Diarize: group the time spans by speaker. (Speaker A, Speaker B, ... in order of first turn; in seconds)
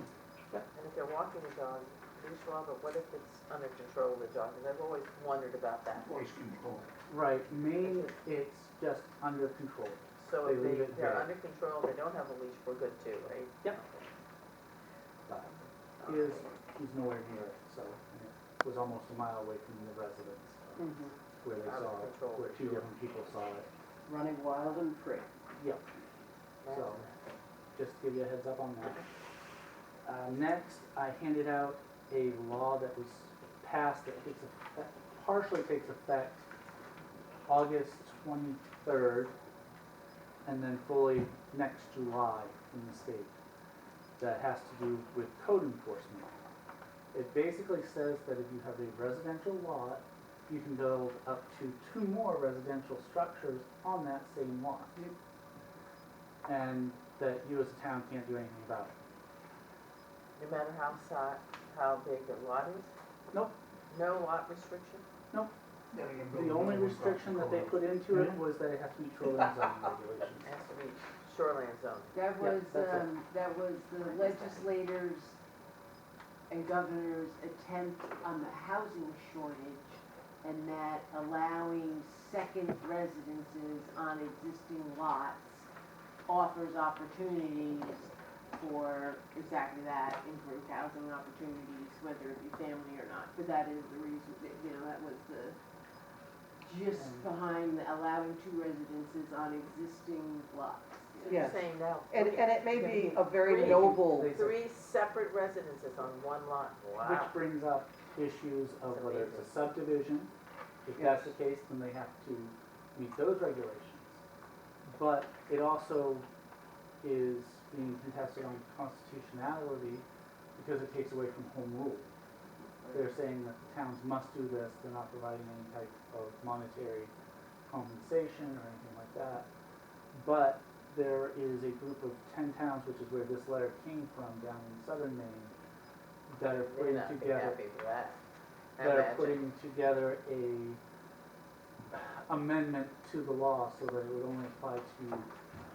Speaker A: 0.7-6.2, 7.8-8.2, 10.2-14.1, 16.0-16.5, 21.6-22.9, 26.6-27.1, 60.4-62.9, 63.9-65.0, 70.4-72.2, 74.0-74.6, 101.2-107.4, 108.9-109.6, 136.6-138.2, 138.8-139.4
Speaker B: 6.0-6.9, 65.9-68.4
Speaker C: 7.1-11.3, 15.3-23.7, 25.6-25.8, 26.7-27.1, 27.8-29.0, 30.1-36.5, 37.5-39.3, 40.5-43.3, 44.2-46.4, 47.1-55.0, 56.5-58.9, 66.3-70.5, 72.4-73.1, 97.0-97.3, 103.6-104.6, 107.0-110.3, 110.9-114.2, 115.0-116.3, 117.0-120.0, 120.6-122.1, 122.9-127.1, 127.7-129.5, 130.1-135.5, 136.3-137.6, 138.8-140.8, 141.9-145.3
Speaker D: 20.8-21.1, 24.1-25.3, 101.3-104.4, 111.0-111.3
Speaker E: 72.1-75.4, 76.5-85.7, 86.3-95.6, 96.7-101.4